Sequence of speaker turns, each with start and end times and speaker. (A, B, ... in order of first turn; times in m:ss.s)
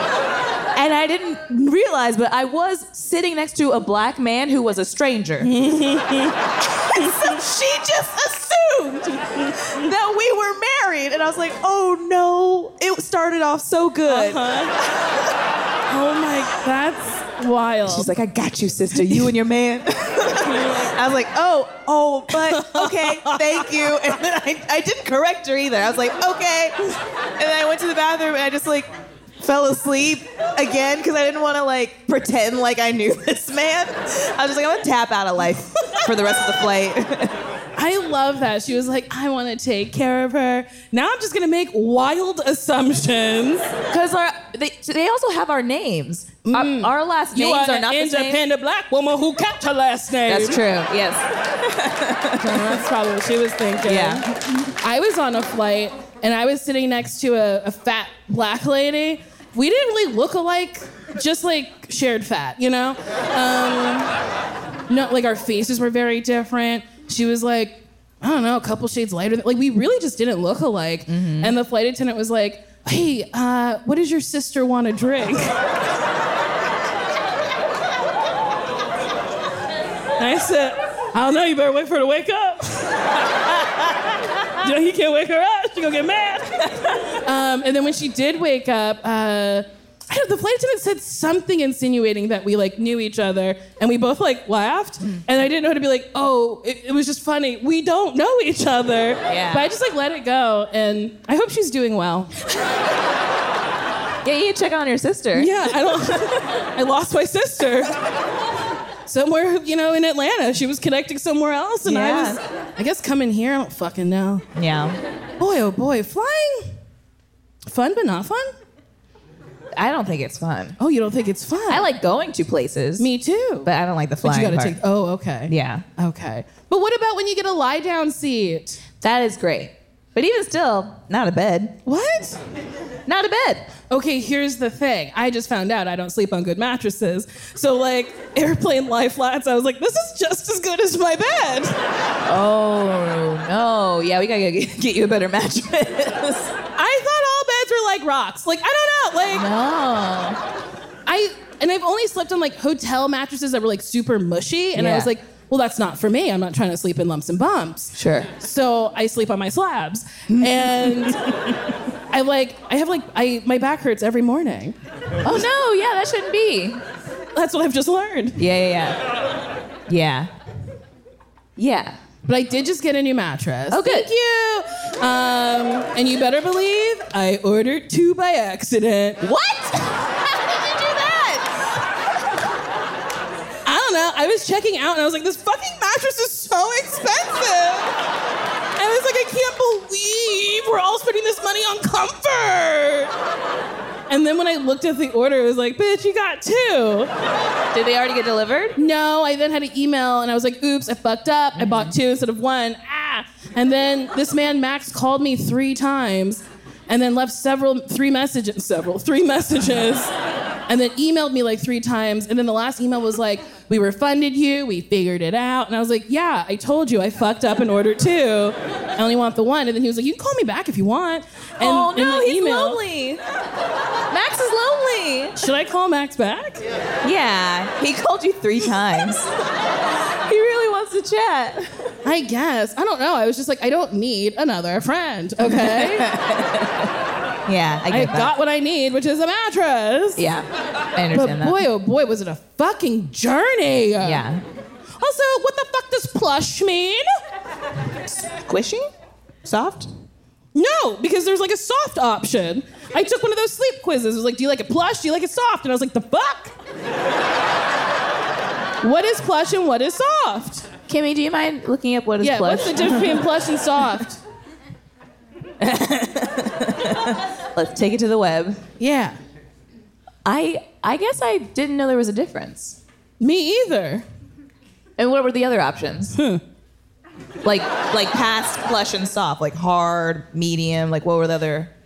0:00.7-0:05.6 A
0:05.4-0:06.4 B
0:06.8-0:14.4 A
0:06.9-0:07.3 B
0:09.6-0:09.8 B
0:14.1-0:14.7 B
0:15.9-0:18.1 B
0:17.9-0:26.8 A
0:20.4-0:20.9 B
0:22.3-0:23.7 B
0:27.4-0:37.4 A
0:37.8-0:43.7 B
0:43.9-0:48.4 A
0:46.4-0:50.6 B
0:50.3-0:52.8 A
0:52.4-1:04.1 B
0:53.8-0:54.3 A
1:04.9-1:15.6 B
1:11.1-1:11.6 A
1:20.2-1:23.1 B
1:24.6-1:42.3 B
1:39.3-1:39.7 A
1:44.2-1:46.2 A
1:45.4-1:48.0 B
1:49.1-1:54.4 B
1:51.8-1:52.4 A
1:54.6-1:55.0 A
1:55.4-1:56.7 B
1:57.7-1:58.5 B
1:59.8-2:00.8 A
2:00.8-2:01.9 B
2:01.7-2:03.1 A
2:03.0-2:03.7 B
2:03.6-2:04.8 A
2:04.2-2:08.8 B
2:05.5-2:05.8 A
2:09.0-2:11.8 A
2:11.8-2:12.4 B
2:13.1-2:13.7 A
2:13.9-2:21.8 B
2:22.2-2:26.5 A
2:26.8-2:29.5 B
2:29.3-2:30.4 A
2:31.1-2:41.2 B
2:34.8-2:35.1 A
2:38.0-2:38.3 A
2:40.3-2:41.6 A
2:42.1-2:44.8 B
2:45.2-2:46.8 A
2:47.4-2:48.4 B
2:48.4-2:49.0 A
2:49.9-2:50.3 A
2:51.6-2:52.0 A
2:52.3-2:59.2 B
2:53.7-2:54.1 A
2:59.2-3:01.6 A
3:03.6-3:07.9 B
3:08.8-3:13.1 B
3:14.1-3:17.1 B
3:17.7-3:18.8 A
3:18.8-3:30.1 B
3:21.6-3:21.9 A
3:30.7-3:42.8 B
3:41.6-3:43.2 A
3:44.1-3:45.4 A
3:45.4-3:46.6 B
3:47.0-3:49.3 A
3:50.2-3:51.7 A
3:52.0-3:56.1 B
3:55.4-3:56.9 A
3:57.5-3:58.3 A
3:57.9-4:00.3 B
4:00.2-4:01.6 A
4:01.1-4:04.2 B
4:04.0-4:04.4 A
4:05.0-4:07.1 B
4:08.1-4:08.9 A
4:09.4-4:09.9 A
4:10.6-4:16.5 B
4:18.8-4:20.7 B
4:20.9-4:23.2 A
4:22.2-4:24.2 B
4:25.6-4:28.6 A
4:28.8-4:29.2 B
4:30.2-4:32.8 A
4:33.2-4:34.0 B
4:35.0-4:36.2 A
4:36.1-4:36.4 B
4:37.4-4:41.7 A